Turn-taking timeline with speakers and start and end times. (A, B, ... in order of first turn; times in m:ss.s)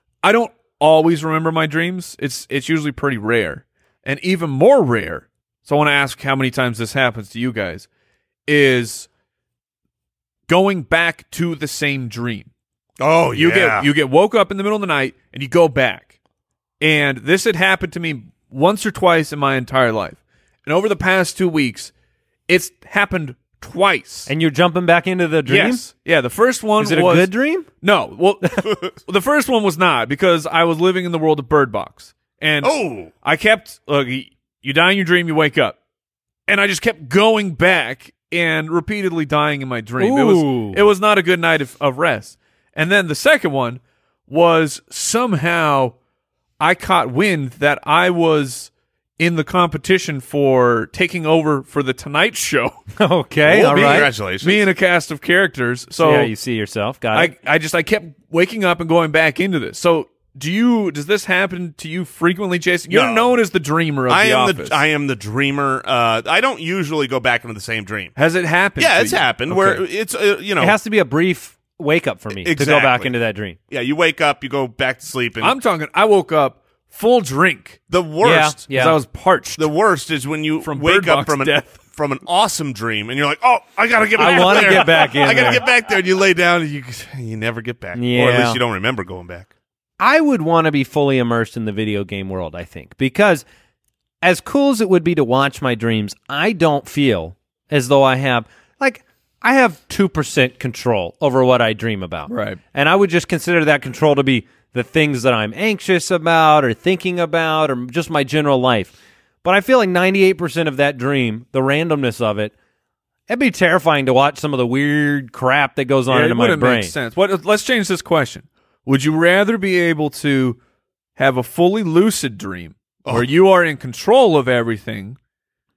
0:00.2-0:07.9 A
0:08.4-0:09.1 A
0:10.5-0:12.5 A
0:13.0-0:13.9 B
0:13.3-0:16.1 A
0:16.8-0:21.9 A
0:22.5-0:24.3 A
0:24.3-0:25.8 C
0:25.5-0:35.8 A
0:26.8-0:27.7 C
0:32.6-0:33.1 B
0:36.5-0:45.9 A
0:40.0-0:40.8 C
0:46.6-0:52.8 A
0:53.0-0:54.1 C
0:53.4-0:54.6 B
0:53.6-0:56.3 A
0:56.0-0:57.3 C
0:57.1-1:04.8 A
1:02.9-1:03.3 B
1:04.1-1:08.1 B
1:08.2-1:09.8 A
1:08.8-1:10.7 B
1:10.6-1:13.6 C
1:12.4-1:13.1 B
1:13.7-1:15.6 B
1:15.4-1:17.8 A
1:17.9-1:18.6 B
1:18.2-1:19.0 C
1:18.7-1:19.7 A
1:19.6-1:29.5 B
1:20.6-1:21.8 A
1:24.2-1:25.6 C
1:28.0-1:28.6 C
1:30.0-1:33.4 C
1:34.2-1:52.5 C
1:42.3-1:42.6 A
1:53.3-1:56.9 C
1:56.1-2:00.6 A
2:01.2-2:05.2 A